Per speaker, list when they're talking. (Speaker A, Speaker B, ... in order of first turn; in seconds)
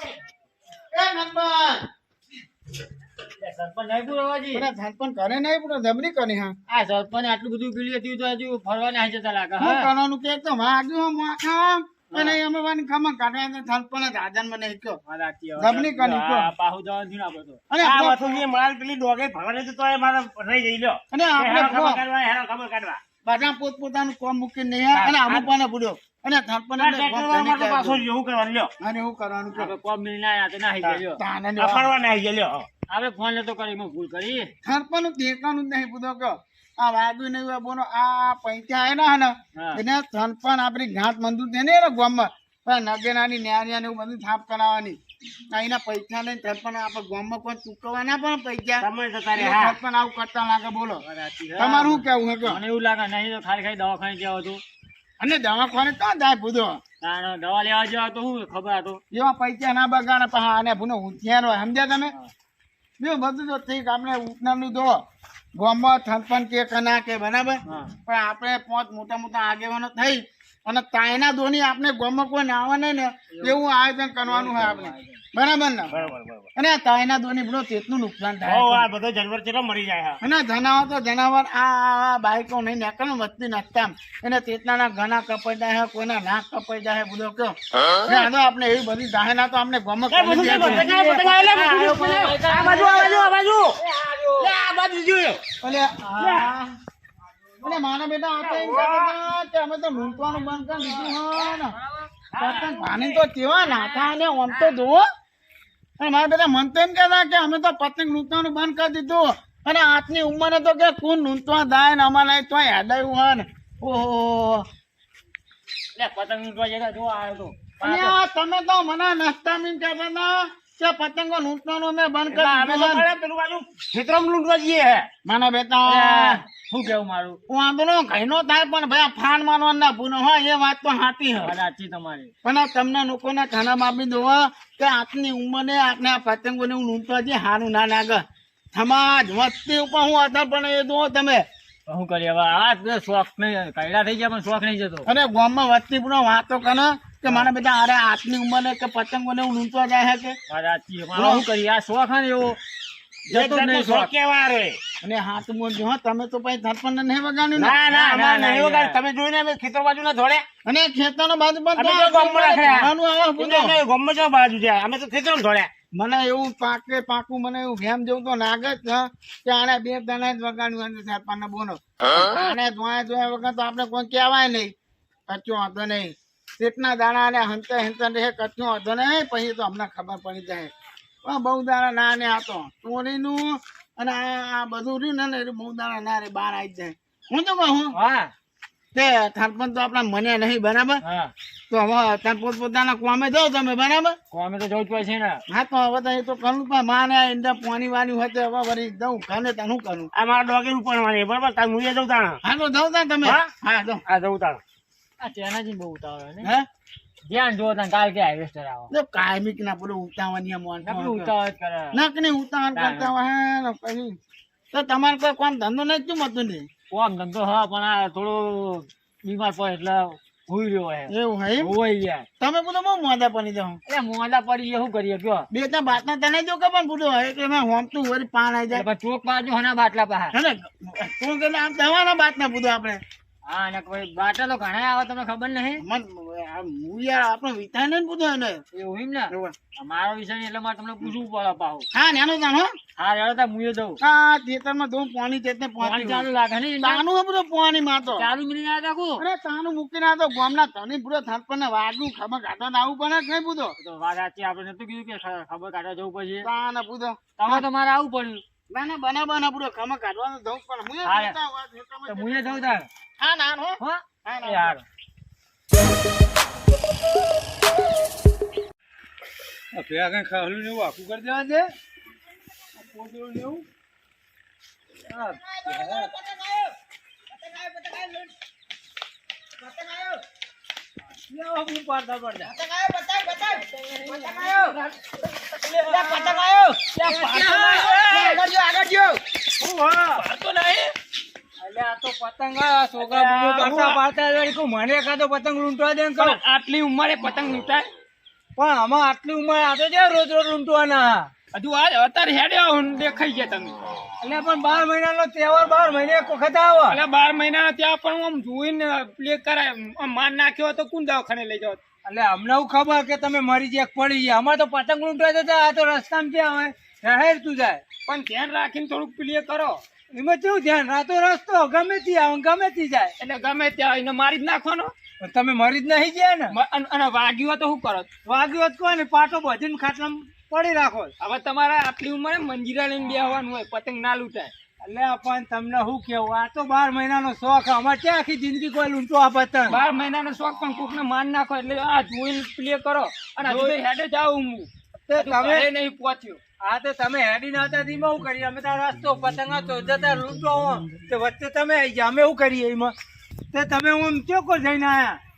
Speaker A: 0.9-1.9, 4.5-6.6, 9.6-15.0, 15.6-16.5, 17.7-18.2, 21.1-22.0, 23.2-28.1, 28.8-29.7, 31.2-31.9, 34.6-51.0, 51.6-52.6, 55.2-56.8, 59.1-62.1, 63.0-65.0, 65.5-75.9, 76.5-78.9, 80.2-90.9, 92.7-93.1, 95.6-96.8, 97.6-101.7, 102.4-105.0, 106.0-114.7, 117.8-123.0, 125.2-126.4, 127.5-131.5, 132.4-138.2, 138.7-141.4, 145.1-150.4, 151.1-151.5, 153.6-154.0, 155.0-157.8, 160.6-163.8, 165.9-174.7, 175.3-180.7, 181.2-187.9, 188.9-191.0, 191.7-194.2, 195.5-200.1, 202.4-204.0, 208.9-211.3, 211.9-214.2, 214.7-216.7, 221.1-221.7, 222.4-223.8, 225.5-228.8, 230.3-233.0, 235.8-238.6, 239.3-239.5, 241.9-242.7, 244.0-246.3, 246.8-248.2, 249.2-253.7, 256.4-257.6, 258.7-262.3, 263.2-264.8, 275.4-276.7, 277.5-278.0, 279.6-280.2, 282.5-283.6, 285.9-286.8, 288.1-289.2
Speaker B: 3.4-4.7, 6.7-9.9, 12.1-12.4, 15.1-17.6, 24.9-25.5, 29.5-31.2, 32.9-34.5, 39.5-39.8, 51.0-54.6, 57.0-59.0, 67.7-67.9, 73.3-73.6, 74.2-75.2, 75.9-76.1, 90.3-94.5, 101.6-103.2, 103.8-104.7, 115.9-118.2, 125.8-127.4, 131.4-132.3, 141.9-145.1, 150.5-152.6, 153.3-154.1, 157.9-159.0, 187.9-188.3, 191.0-191.3, 194.3-195.4, 205.2-206.5, 207.3-208.9, 210.8-212.0, 212.7-213.1, 216.9-222.3, 223.9-225.5, 228.7-230.3, 233.5-235.8, 238.7-241.8, 243.0-244.0, 245.8-247.0, 248.1-249.2, 253.8-256.5, 257.4-258.4, 261.0-261.4, 262.1-262.9, 263.8-264.8
Speaker C: 17.8-23.0, 26.8-28.7, 31.6-32.7, 48.8-49.7, 75.9-76.5, 78.5-80.2, 90.1-93.8, 94.4-95.4, 96.2-96.5, 98.5-98.9, 122.3-125.1, 153.3-154.8, 157.6-160.4, 161.8-165.7, 200.1-202.4, 204.1-204.6
Speaker D: 269.7-271.7, 272.8-273.6, 275.1-276.1, 281.3-282.5, 287.1-288.0, 289.6-290.2, 291.6-296.4, 298.6-301.3, 304.2-307.0, 312.0-317.8, 320.1-323.1, 325.2-326.5, 328.2-331.1, 334.8-339.8, 343.4-343.8, 345.1-345.7, 346.6-352.9, 353.5-355.2
Speaker E: 283.5-288.4, 290.1-290.9, 293.1-293.9, 296.2-297.9, 301.5-303.8, 306.9-311.8, 318.1-319.8, 323.2-324.9, 326.5-328.1, 331.2-334.5, 339.7-346.4